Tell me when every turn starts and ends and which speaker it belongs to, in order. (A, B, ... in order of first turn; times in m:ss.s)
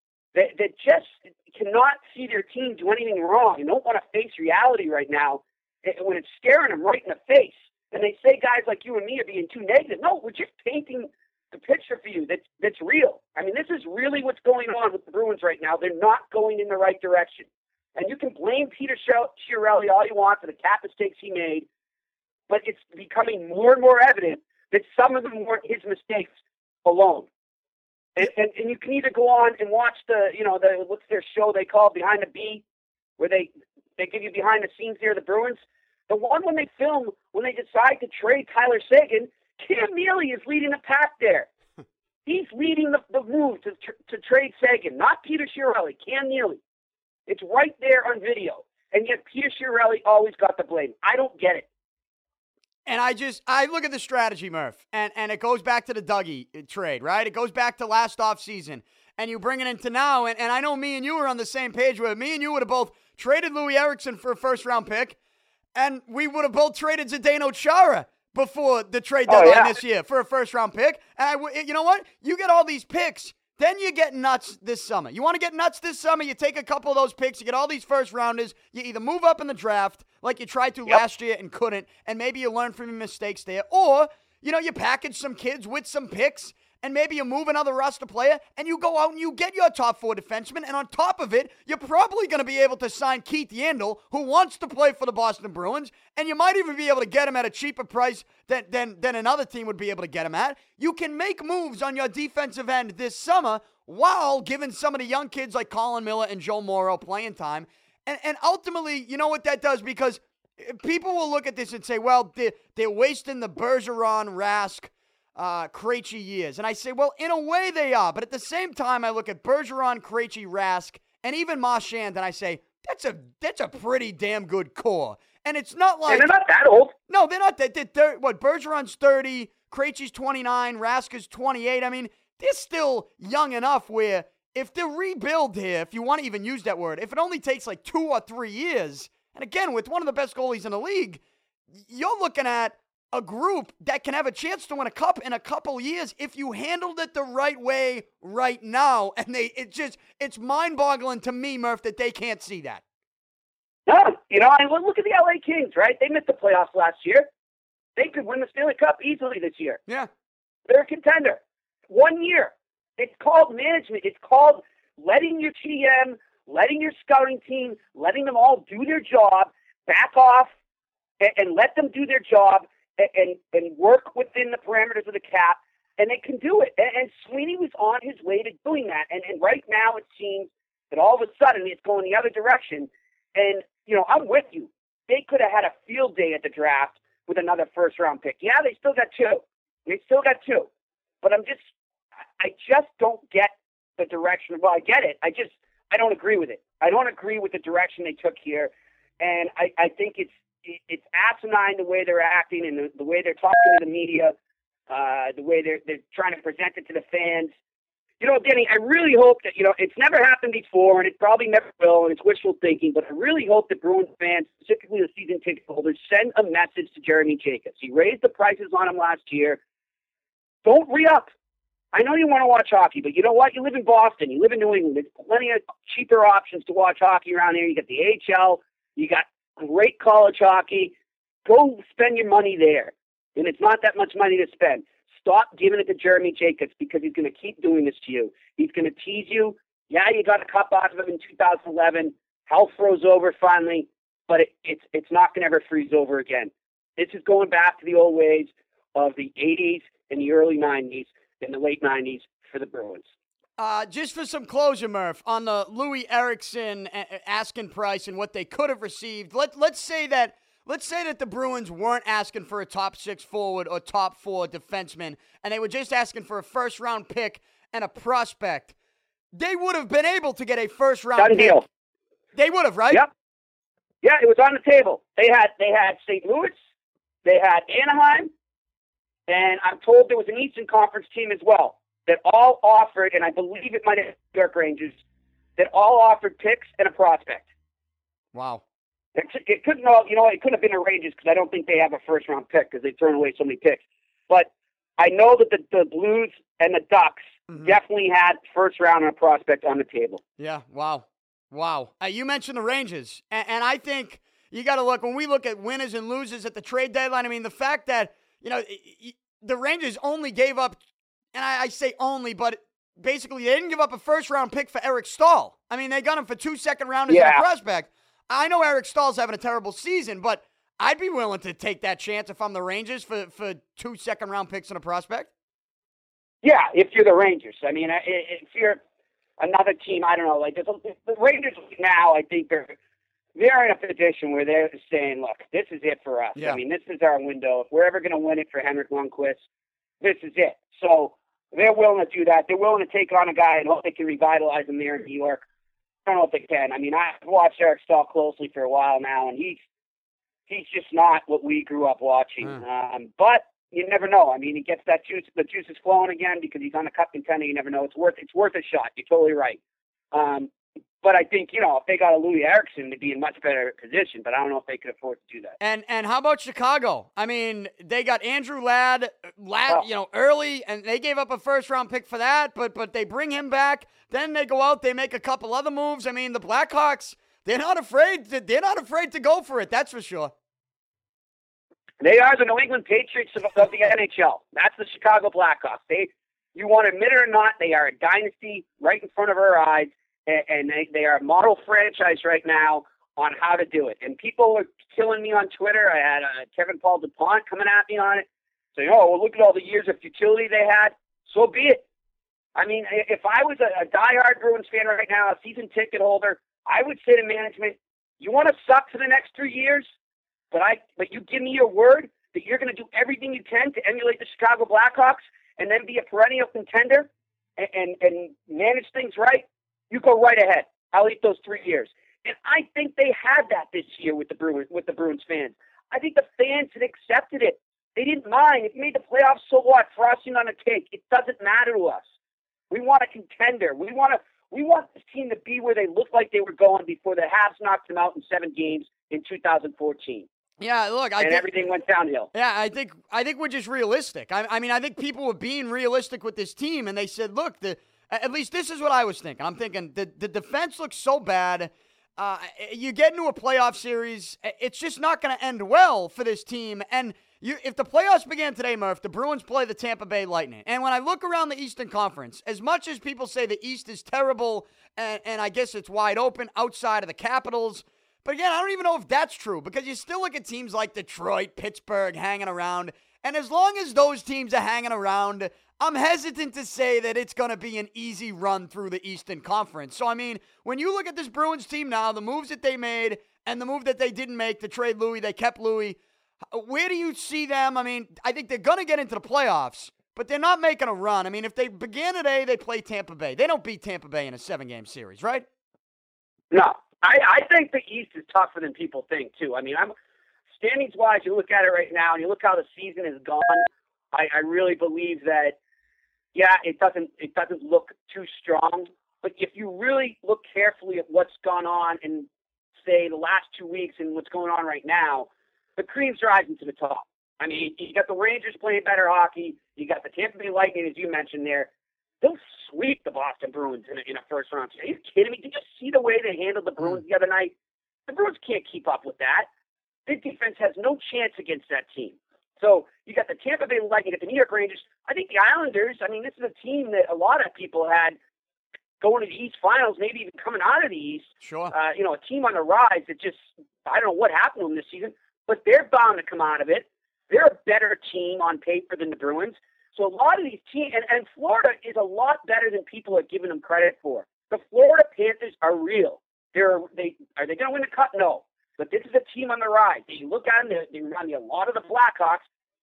0:00.4-0:21.7 A
0:22.5-0:26.3 A
0:26.8-0:27.3 A
0:28.2-0:32.6 A
0:33.2-0:41.5 A
0:42.3-0:46.6 A
0:47.3-0:51.7 A
0:52.9-1:05.2 B
1:05.8-2:06.3 B
1:09.3-1:09.8 A
2:06.1-2:06.9 A
2:07.1-2:21.2 B
2:21.7-2:32.8 B
2:33.9-2:37.3 A
2:38.0-2:39.8 A
2:40.7-2:50.5 A
2:51.2-3:10.7 A
3:11.2-3:11.6 A
3:12.4-3:24.4 A
3:24.9-3:27.5 A
3:28.2-3:39.6 A
3:40.6-3:41.3 A
3:41.9-4:13.1 A
4:13.6-4:28.8 B
4:29.4-4:31.6 B
4:31.2-4:31.6 A
4:32.4-4:33.0 B
4:34.0-4:36.6 A
4:37.2-4:38.3 A
4:39.3-4:45.0 A
4:45.6-4:47.5 A
4:48.3-4:48.6 B
4:49.2-5:00.2 A
5:00.4-5:10.8 B
5:11.3-5:25.3 B
5:17.1-5:17.4 A
5:26.4-5:28.8 A
5:29.4-5:32.8 A
5:33.4-5:39.4 A
5:40.0-5:45.4 A
5:46.1-5:49.6 A
5:50.5-5:59.6 A
6:00.1-6:00.5 A
6:01.0-6:05.6 A
6:05.6-6:20.3 B
6:22.0-6:38.2 A
6:38.8-6:41.8 A
6:42.6-6:49.8 A
6:50.5-7:12.0 A
7:12.7-7:20.3 A
7:20.6-7:21.5 B
7:21.2-7:22.3 A
7:22.3-8:06.0 B
8:06.5-8:15.4 B
8:16.5-8:19.9 A
8:20.6-8:25.6 A
8:26.4-8:32.3 A
8:32.8-8:41.7 A
8:42.2-8:47.5 A
8:48.1-8:49.5 A
8:50.1-8:58.2 A
8:59.0-9:22.4 A
9:01.4-9:01.7 B